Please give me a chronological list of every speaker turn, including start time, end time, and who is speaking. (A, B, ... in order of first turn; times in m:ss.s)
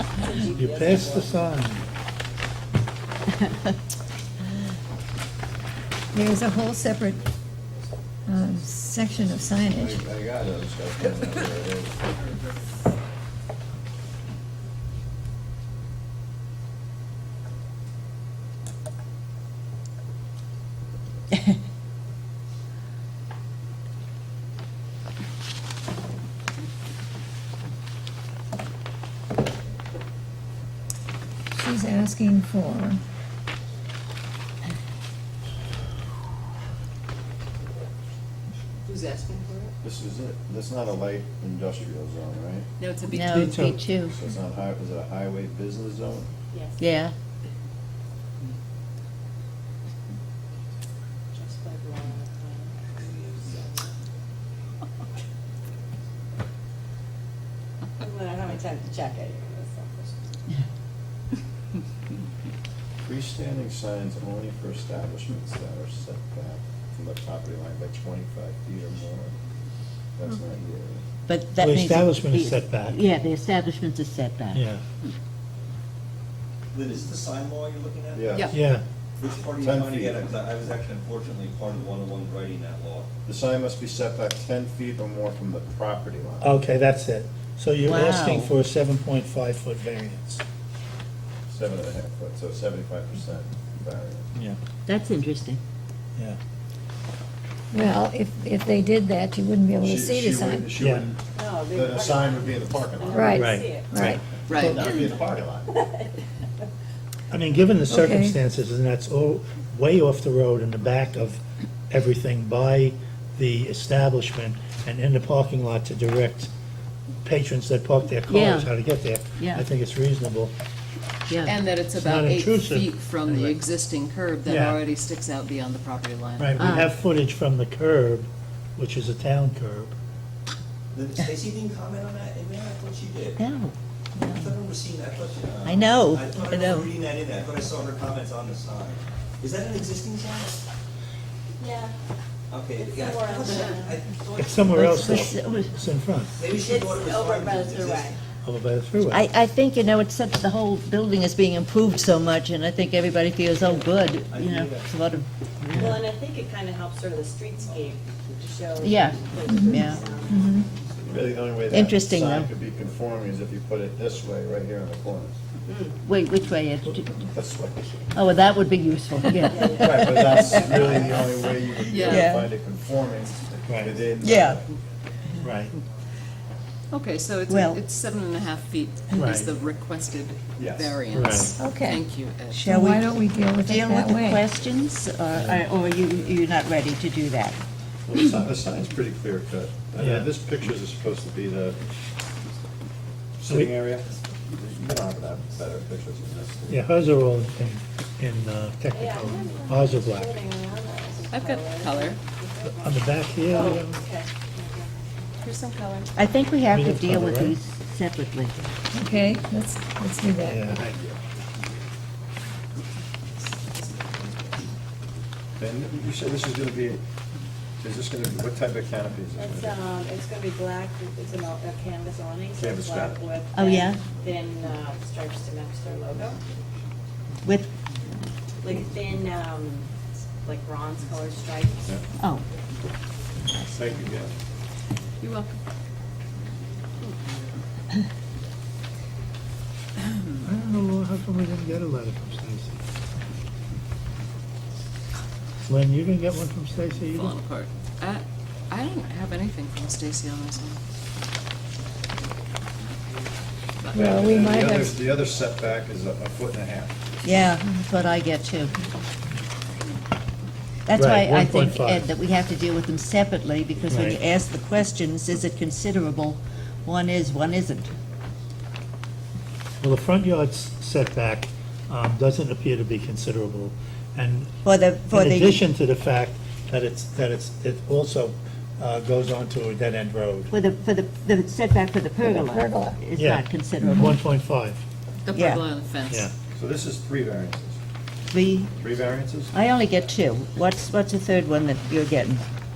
0:00.2-0:01.4 A
0:00.4-0:01.8 B
0:06.1-0:07.2 C
0:08.3-0:10.0 C
0:09.6-0:12.0 D
0:31.5-0:33.0 C
0:38.9-0:39.7 E
0:39.8-0:42.7 D
0:42.8-0:43.8 E
0:43.1-0:44.2 F
0:43.2-0:43.8 B
0:44.0-0:46.3 D
0:46.5-0:46.8 A
0:46.8-0:47.1 F
0:51.4-0:53.9 A
0:53.0-0:53.7 G
0:58.0-1:00.2 A
1:03.0-1:09.4 D
1:10.2-1:11.0 D
1:11.3-1:14.6 F
1:11.6-1:13.0 B
1:14.5-1:14.8 B
1:16.7-1:18.6 G
1:18.1-1:18.5 D
1:18.5-1:18.8 B
1:19.2-1:23.1 G
1:19.6-1:20.2 D
1:23.2-1:26.6 D
1:26.4-1:30.4 B
1:27.8-1:28.5 F
1:31.5-1:34.3 D
1:34.9-1:35.6 F
1:37.7-1:40.8 C
1:39.8-1:43.4 D
1:40.8-1:41.0 B
1:41.4-1:44.1 A
1:43.1-1:44.2 C
1:43.4-1:43.8 B
1:44.0-1:45.7 D
1:44.5-1:44.9 E
1:45.0-1:46.2 A
1:47.3-1:56.5 B
1:47.9-1:48.4 C
1:57.2-2:00.5 B
1:58.3-1:58.7 F
1:59.4-1:59.6 F
2:01.3-2:01.6 F
2:01.5-2:06.8 E
2:01.9-2:03.6 B
2:04.5-2:04.8 B
2:06.4-2:10.0 B
2:06.6-2:06.9 F
2:10.9-2:13.4 G
2:13.4-2:14.6 F
2:14.3-2:20.7 G
2:15.6-2:16.9 F
2:21.6-2:21.9 A
2:22.5-2:24.9 G
2:22.8-2:24.1 A
2:24.4-2:26.4 B
2:24.6-2:25.7 F
2:26.4-2:28.2 G
2:26.5-2:28.2 A
2:28.4-2:29.2 B
2:29.1-2:36.1 F
2:33.6-2:34.9 G
2:35.7-2:36.0 B
2:35.8-2:40.5 A
2:38.8-2:40.6 F
2:39.5-2:40.7 C
2:41.0-2:45.4 D
2:41.7-2:42.5 F
2:45.7-2:45.9 A
2:46.0-2:47.2 F
2:47.3-2:48.0 D
2:48.2-2:51.0 F
2:49.5-2:51.3 A
2:49.8-2:54.6 D
2:51.9-2:52.3 E
2:51.9-2:52.5 F
2:53.7-2:54.0 B
2:54.2-2:54.6 F
2:55.4-2:55.8 B
2:56.9-3:02.6 E
2:57.5-2:57.8 F
2:59.1-2:59.5 B
3:00.6-3:01.0 D
3:01.1-3:01.6 B
3:01.6-3:04.5 C
3:02.5-3:03.1 F
3:03.6-3:07.6 F
3:05.4-3:05.6 B
3:08.1-3:11.8 D
3:10.0-3:10.3 B
3:13.4-3:16.8 D
3:13.5-3:13.8 B
3:16.7-3:20.3 B
3:18.9-3:25.4 A
3:21.3-3:22.2 E
3:22.6-3:24.0 B
3:25.4-3:26.1 E
3:26.2-3:28.6 F
3:26.7-3:27.6 B
3:28.9-3:30.7 C
3:30.5-3:30.9 B
3:30.8-3:31.2 D
3:33.4-3:34.6 E
3:35.6-3:37.0 D
3:37.8-3:39.8 D
3:39.4-3:46.4 A
3:42.6-3:43.2 D
3:43.5-3:44.0 F
3:47.4-3:47.7 F
3:48.6-3:49.9 A
3:50.4-3:52.0 A
3:52.2-3:52.4 F
3:53.7-3:54.3 D
3:55.2-3:55.6 E
4:00.4-4:02.8 B
4:05.7-4:07.4 B
4:07.1-4:10.8 E
4:13.8-4:14.2 E
4:13.9-4:15.0 C
4:14.0-4:17.0 D
4:17.2-4:18.8 F
4:20.9-4:28.0 F
4:21.0-4:22.1 B
4:23.9-4:24.2 B
4:29.8-4:34.5 B
4:34.6-4:35.6 F
4:35.1-4:40.5 B
4:40.5-4:44.2 F
4:42.2-4:43.0 C
4:43.2-4:44.8 B
4:45.2-4:46.3 E
4:45.3-4:45.6 F
4:46.1-4:46.3 B
4:46.5-4:47.8 D
4:48.3-4:48.7 F
4:48.7-4:49.5 D
4:49.5-4:52.4 F